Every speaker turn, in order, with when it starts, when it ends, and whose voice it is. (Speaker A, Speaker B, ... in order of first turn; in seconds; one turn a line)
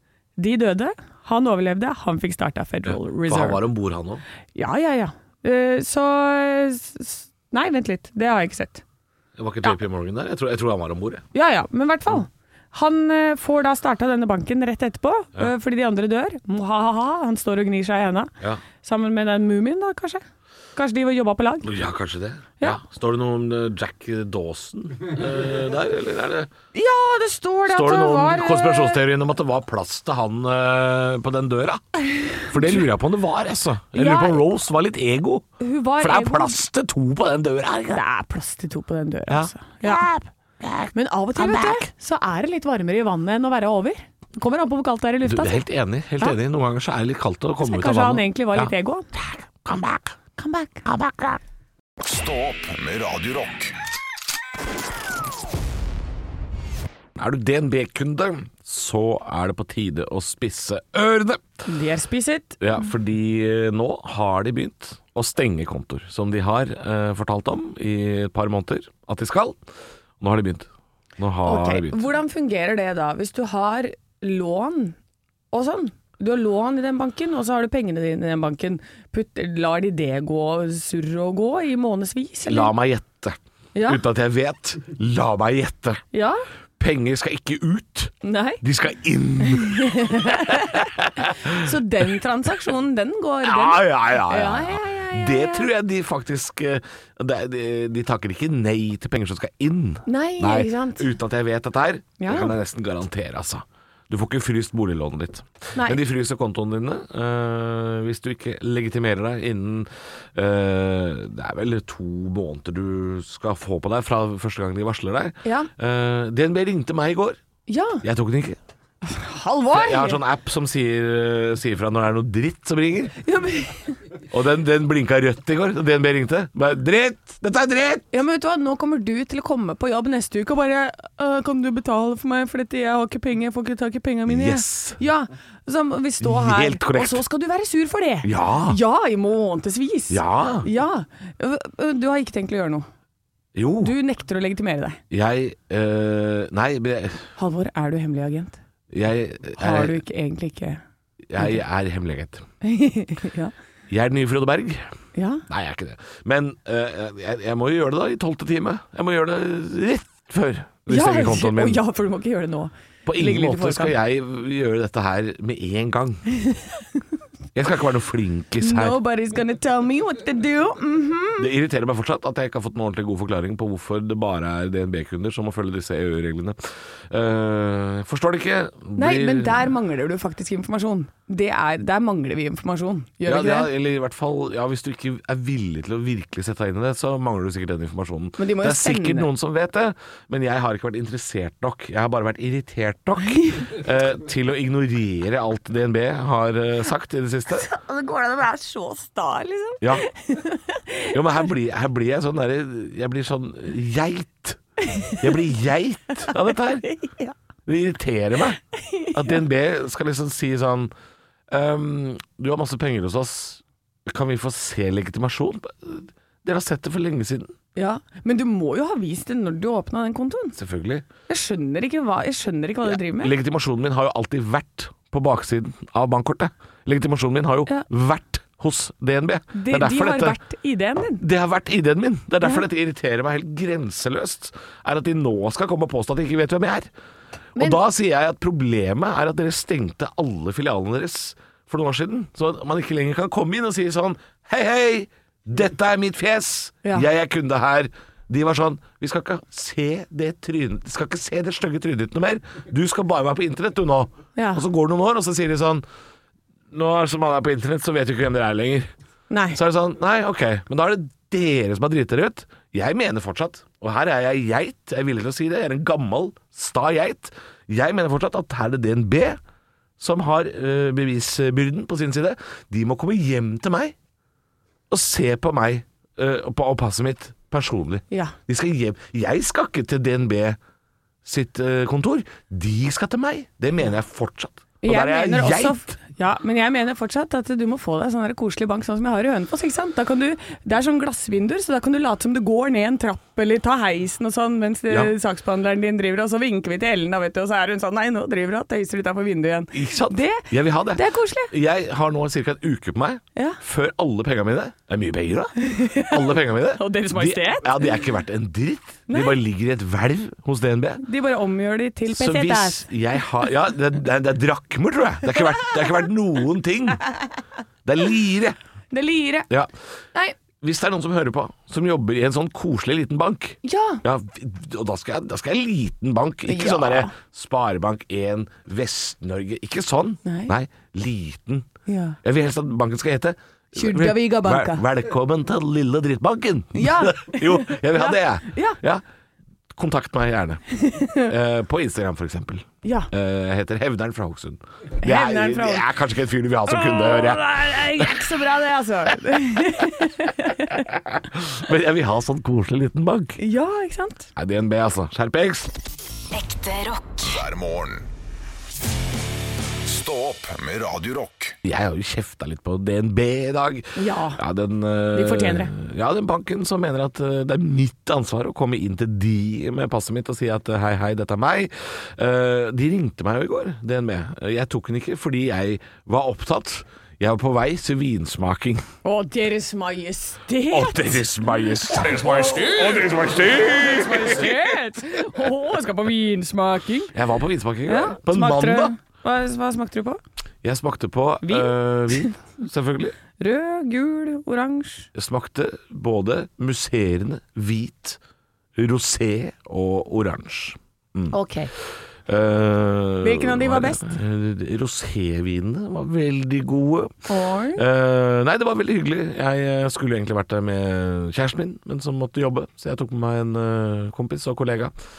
Speaker A: 0.4-3.6
Speaker B: 2.9-4.2
Speaker A: 4.5-8.8
Speaker B: 9.4-11.2
Speaker A: 11.3-20.2
Speaker A: 20.8-21.7
Speaker B: 21.6-26.5
Speaker A: 26.7-29.0
Speaker B: 27.7-31.9
Speaker A: 32.4-32.8
Speaker B: 32.4-35.5
Speaker A: 33.9-34.4
Speaker A: 35.6-36.6
Speaker B: 36.0-38.0
Speaker A: 37.9-40.1
Speaker B: 39.3-41.9
Speaker A: 40.9-45.6
Speaker B: 45.2-50.2
Speaker A: 47.6-49.1
Speaker A: 50.4-50.9
Speaker B: 50.9-51.4
Speaker C: 52.0-53.7
Speaker B: 57.2-61.4
Speaker A: 61.7-62.6
Speaker B: 62.6-69.6
Speaker B: 70.2-72.1
Speaker A: 71.4-75.0
Speaker A: 75.5-82.7
Speaker B: 82.5-86.0
Speaker A: 83.8-84.0
Speaker A: 86.1-86.4
Speaker B: 86.8-91.7
Speaker A: 88.2-88.6
Speaker A: 89.4-95.7
Speaker B: 93.4-117.4
Speaker A: 100.1-101.1
Speaker A: 102.2-102.5
Speaker A: 115.4-115.7
Speaker A: 117.7-118.0
Speaker B: 118.0-118.6
Speaker A: 119.0-120.2
Speaker B: 119.7-123.2
Speaker A: 123.2-124.0
Speaker B: 124.3-128.1
Speaker A: 128.1-142.9
Speaker B: 134.3-135.0
Speaker B: 136.2-137.2
Speaker B: 138.2-138.8
Speaker B: 140.1-140.7
Speaker B: 143.6-143.9
Speaker A: 143.8-145.0
Speaker B: 145.1-147.3
Speaker A: 147.4-148.6
Speaker B: 148.9-150.0
Speaker A: 149.6-150.8
Speaker B: 151.3-152.4
Speaker A: 152.6-153.5
Speaker B: 153.9-154.9
Speaker A: 155.2-155.4
Speaker B: 155.5-161.8
Speaker A: 160.9-164.0
Speaker B: 163.1-166.2
Speaker B: 167.6-169.0
Speaker A: 168.6-171.5
Speaker B: 171.4-179.7
Speaker A: 179.0-183.7
Speaker B: 183.3-197.7
Speaker A: 188.4-189.3
Speaker A: 193.3-193.7
Speaker A: 197.5-201.2
Speaker B: 201.1-204.6
Speaker A: 204.8-205.2
Speaker B: 205.2-206.9
Speaker A: 206.3-207.3
Speaker B: 207.7-208.6
Speaker A: 208.8-209.4
Speaker B: 209.1-210.9
Speaker B: 211.5-217.5
Speaker A: 217.8-220.6
Speaker B: 220.6-221.1
Speaker A: 221.3-223.3
Speaker B: 222.8-230.4
Speaker A: 229.5-231.2
Speaker B: 231.2-236.9
Speaker B: 237.6-255.8
Speaker A: 254.4-254.6
Speaker B: 256.7-258.9
Speaker A: 259.3-259.6
Speaker B: 259.5-269.4
Speaker B: 270.0-273.9
Speaker B: 274.9-280.6
Speaker A: 278.1-278.4
Speaker B: 281.2-286.0
Speaker A: 284.8-301.5
Speaker B: 299.7-311.0
Speaker A: 305.6-307.9
Speaker A: 309.1-309.4
Speaker A: 311.0-312.9
Speaker B: 312.1-317.0
Speaker B: 317.9-318.6
Speaker A: 318.9-319.5
Speaker B: 320.6-331.7
Speaker A: 323.6-324.0
Speaker A: 326.5-327.1
Speaker A: 330.2-330.5
Speaker A: 331.9-332.2
Speaker B: 332.2-339.0
Speaker A: 333.8-334.8
Speaker A: 336.8-338.8
Speaker B: 339.7-340.6
Speaker A: 340.8-341.3
Speaker B: 341.2-348.3
Speaker A: 342.8-343.1
Speaker A: 345.0-345.9
Speaker A: 346.7-350.9
Speaker B: 350.9-353.4
Speaker A: 353.4-354.3
Speaker B: 354.4-355.7
Speaker C: 356.3-358.1
Speaker C: 359.8-361.6
Speaker B: 361.6-378.9
Speaker A: 364.0-364.4
Speaker A: 365.1-365.7
Speaker A: 379.0-381.2
Speaker B: 380.7-384.6
Speaker A: 381.9-383.0
Speaker A: 383.5-387.1
Speaker B: 387.1-388.9
Speaker A: 387.9-390.2
Speaker B: 390.6-393.2
Speaker A: 391.4-392.4
Speaker A: 393.4-395.1
Speaker B: 395.1-398.2
Speaker B: 398.8-401.4
Speaker A: 401.3-401.7
Speaker B: 402.3-414.9
Speaker A: 403.2-404.1
Speaker A: 407.3-407.8